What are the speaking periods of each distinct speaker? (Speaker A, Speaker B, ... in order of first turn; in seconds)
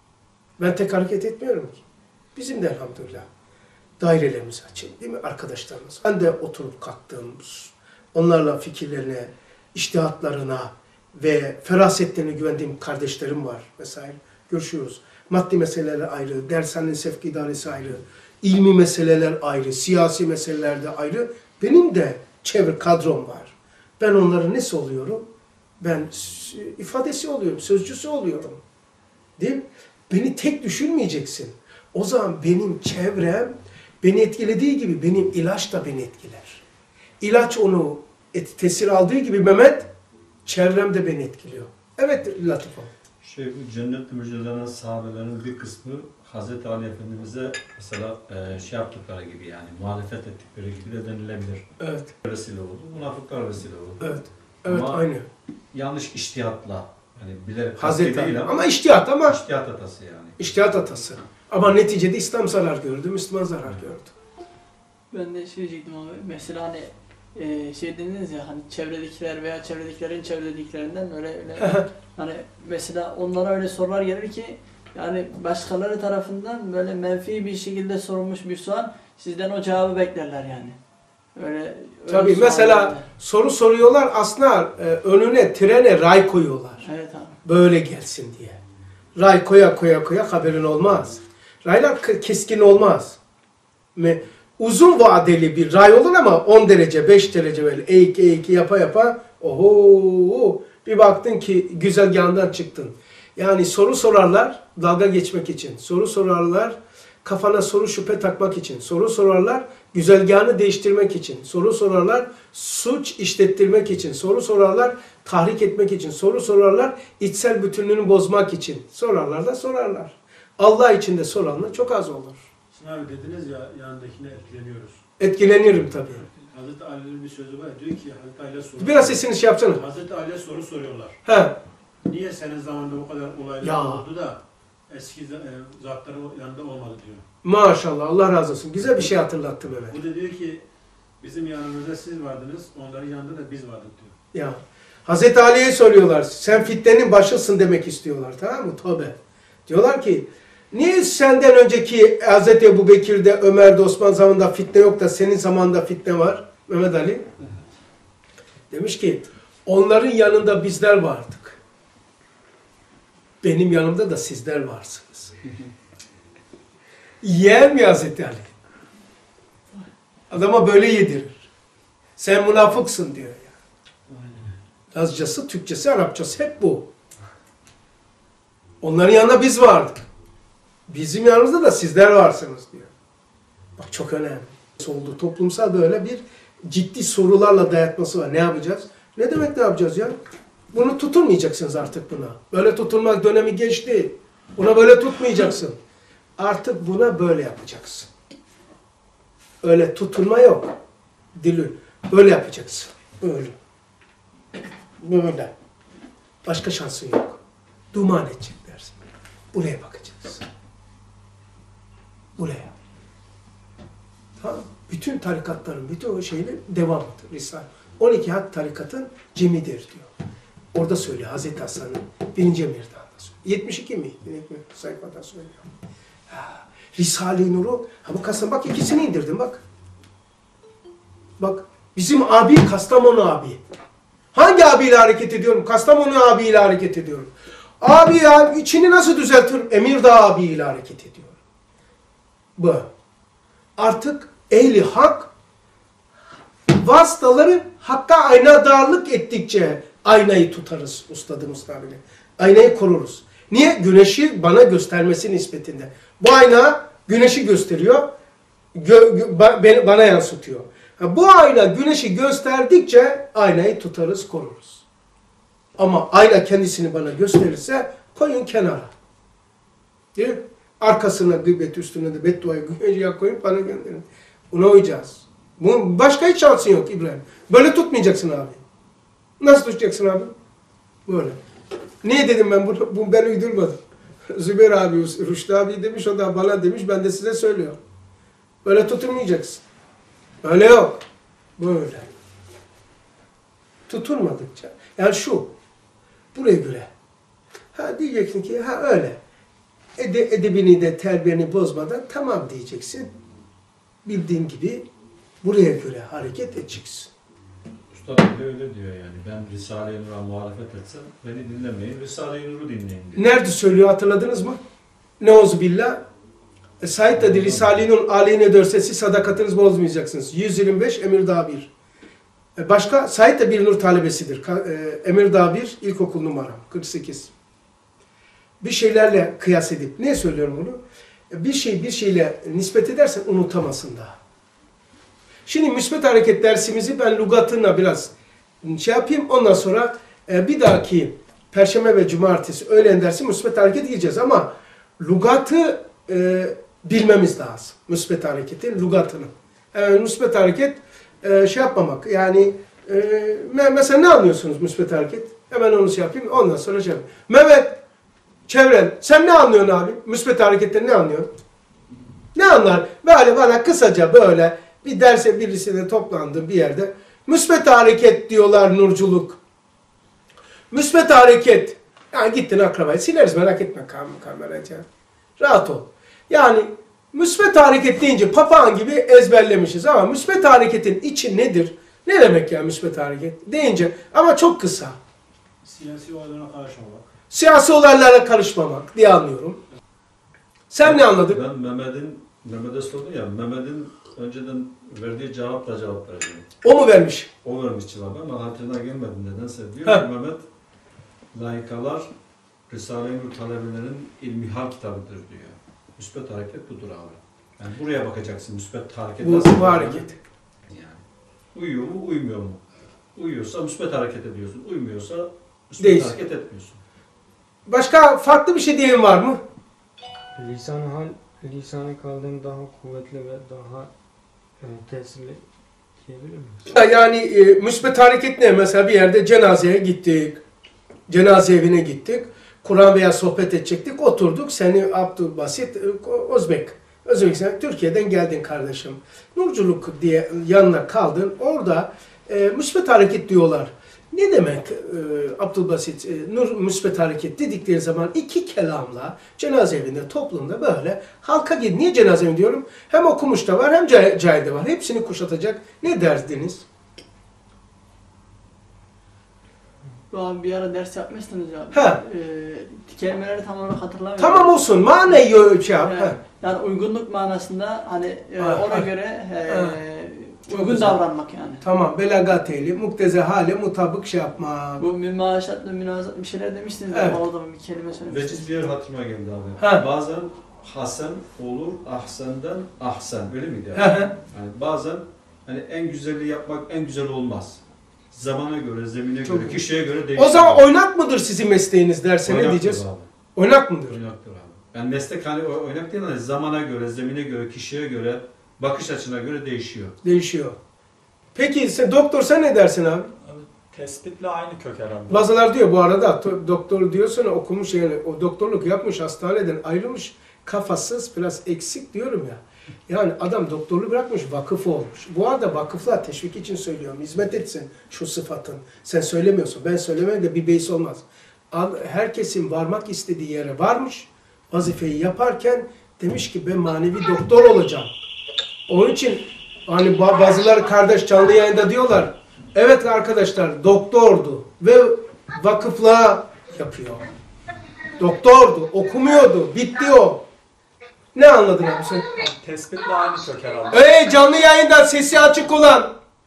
Speaker A: 0.6-1.8, 2.4-3.3, 4.0-25.3, 25.8-28.6, 29.4-36.6, 37.2-39.9, 40.5-42.9, 51.8-52.1, 54.0-55.3, 57.8-59.4, 60.4-64.1, 71.6-71.8, 82.1-86.8, 87.4-88.6, 89.2-93.2, 94.0-122.4, 125.2-126.3, 128.8-129.8, 131.2-131.6, 133.6-134.1, 137.4-139.9, 144.3-149.2, 149.7-157.3, 158.7-161.6, 163.4-165.3, 167.2-168.5, 170.3-171.5, 172.2-173.5, 174.9-176.9, 178.8-180.0, 180.9-182.9, 183.8-190.2, 190.7-195.8, 196.4-198.1, 199.6-200.7, 201.3-203.6, 205.0-205.5, 206.4-207.4, 207.9-209.0, 209.5-210.4, 212.4-212.7, 214.4-220.1, 220.7-225.7, 226.3-229.6, 231.4-233.6, 234.3-241.4, 242.6-242.9, 243.8-245.3, 246.7-258.1, 258.8-264.8, 265.8-268.9, 270.2-278.6, 279.4-280.3, 281.1-281.4, 282.0-283.8, 284.3-287.8, 288.6-289.6, 290.4-291.0, 291.6-292.1, 293.9-295.5, 296.3-296.9, 297.8-299.2, 300.0-303.1, 304.1-304.9, 305.4-307.1, 313.1-314.6, 315.2-316.0, 316.8-321.7, 322.6-327.3, 328.6-330.8, 331.3-334.2, 335.5-357.8, 358.5-361.3, 362.4-369.4, 370.7-374.9, 375.4-385.0, 387.3-389.6, 390.7-391.4, 396.6-397.3, 409.2-410.2, 415.8-416.2, 417.7-419.4, 426.7-430.4, 431.1-456.6, 461.7-462.0, 464.2-466.2, 468.4-468.9, 469.5-469.8, 470.5-471.0, 471.6-474.8, 476.9-477.2, 483.8-484.1, 489.2-492.8, 493.4-494.0, 500.0-500.6, 501.4-503.1, 505.1-527.9, 528.7-537.0, 538.0-540.2, 541.1-542.1, 543.7-545.9
Speaker B: 43.2-51.7, 52.2-55.0, 55.7-58.7, 59.3-60.4, 307.9-313.2, 317.2-317.8, 390.8-396.5, 397.4-400.5, 401.3-402.1, 402.7-410.1, 410.7-411.0, 411.5-412.6, 413.1-416.8, 478.1-490.6, 492.2-493.1, 493.9-500.0
Speaker C: 65.1-80.8, 81.4-83.1, 86.8-87.4, 460.1-464.7, 465.9-471.6, 474.8-478.5
Speaker D: 122.7-125.0, 126.3-131.2, 132.1-137.2, 139.9-140.6, 141.2-144.1, 174.1-174.5, 385.6-387.1
Speaker E: 420.4-423.9, 424.6-425.4, 426.0-426.6
Speaker F: 503.2-505.3, 542.1-544.1